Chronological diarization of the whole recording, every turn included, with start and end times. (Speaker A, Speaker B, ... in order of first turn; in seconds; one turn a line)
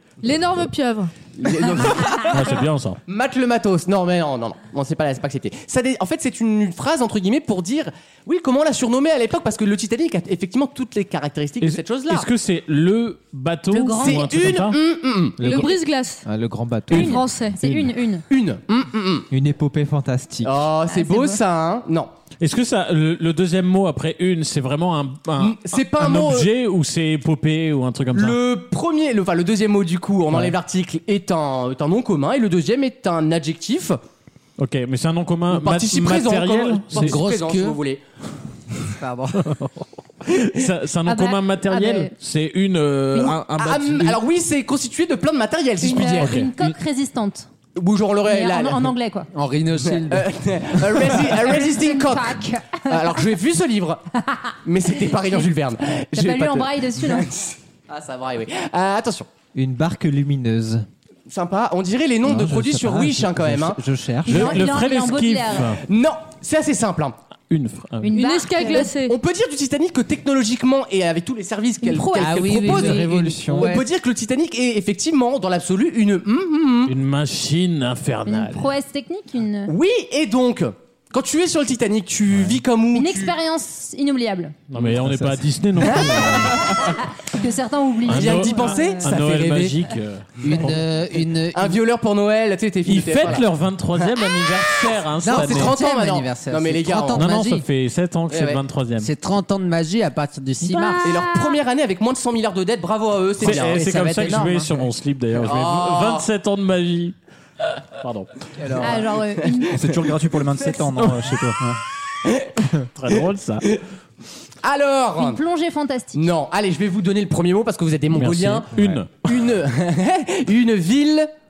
Speaker A: 0.2-1.1
Speaker B: 1.4-2.6
Speaker C: 2.2-3.0
Speaker B: 3.1-12.3
Speaker C: 11.6-14.8
Speaker D: 13.7-14.2
Speaker B: 14.0-15.5
Speaker E: 15.4-17.9
Speaker A: 15.4-16.2
Speaker A: 16.9-17.6
Speaker D: 16.9-18.2
Speaker B: 18.3-19.3
Speaker E: 19.3-20.6
Speaker B: 20.4-22.1
Speaker D: 20.9-21.4
Speaker C: 22.4-28.4
Speaker B: 25.4-26.5
Speaker B: 28.1-34.0
Speaker C: 34.6-37.2
Speaker B: 35.5-38.0
Speaker F: 36.9-37.8
Speaker F: 39.0-39.7
Speaker C: 40.2-44.2
Speaker D: 41.1-42.1
Speaker B: 43.1-46.4
Speaker D: 45.8-47.5
Speaker C: 45.9-46.7
Speaker B: 47.8-48.9
Speaker D: 48.3-49.3
Speaker F: 49.3-50.3
Speaker B: 49.8-54.0
Speaker D: 51.5-53.2
Speaker B: 54.6-59.3
Speaker D: 55.1-55.5
Speaker D: 56.1-57.3
Speaker E: 59.5-60.9
Speaker B: 61.3-63.8
Speaker E: 62.2-64.5
Speaker D: 64.3-65.8
Speaker C: 64.3-65.8
Speaker B: 65.9-67.2
Speaker C: 67.5-68.1
Speaker D: 68.0-68.9
Speaker A: 68.1-69.2
Speaker B: 68.9-76.9
Speaker D: 71.8-72.4
Speaker F: 72.1-73.9
Speaker E: 72.4-73.8
Speaker C: 76.9-78.7
Speaker D: 78.3-79.7
Speaker B: 79.7-83.3
Speaker C: 82.3-82.6
Speaker D: 82.9-84.5
Speaker C: 84.7-87.0
Speaker E: 84.9-85.4
Speaker D: 86.3-89.0
Speaker C: 88.1-90.8
Speaker B: 88.1-89.8
Speaker F: 90.4-91.8
Speaker B: 91.5-93.5
Speaker C: 92.8-95.8
Speaker B: 95.2-97.3
Speaker F: 95.2-97.7
Speaker C: 97.1-99.1
Speaker B: 98.3-98.6
Speaker F: 99.0-101.1
Speaker D: 100.7-101.6
Speaker B: 101.0-103.8
Speaker C: 103.4-107.2
Speaker F: 103.4-104.8
Speaker B: 105.4-106.3
Speaker C: 108.0-108.3
Speaker B: 108.6-109.8
Speaker D: 108.8-109.8
Speaker G: 109.7-111.8
Speaker C: 111.0-111.5
Speaker B: 112.2-112.6
Speaker C: 113.0-113.7
Speaker B: 114.6-115.4
Speaker D: 115.2-116.3
Speaker B: 116.2-121.3
Speaker C: 118.1-119.1
Speaker G: 118.8-119.0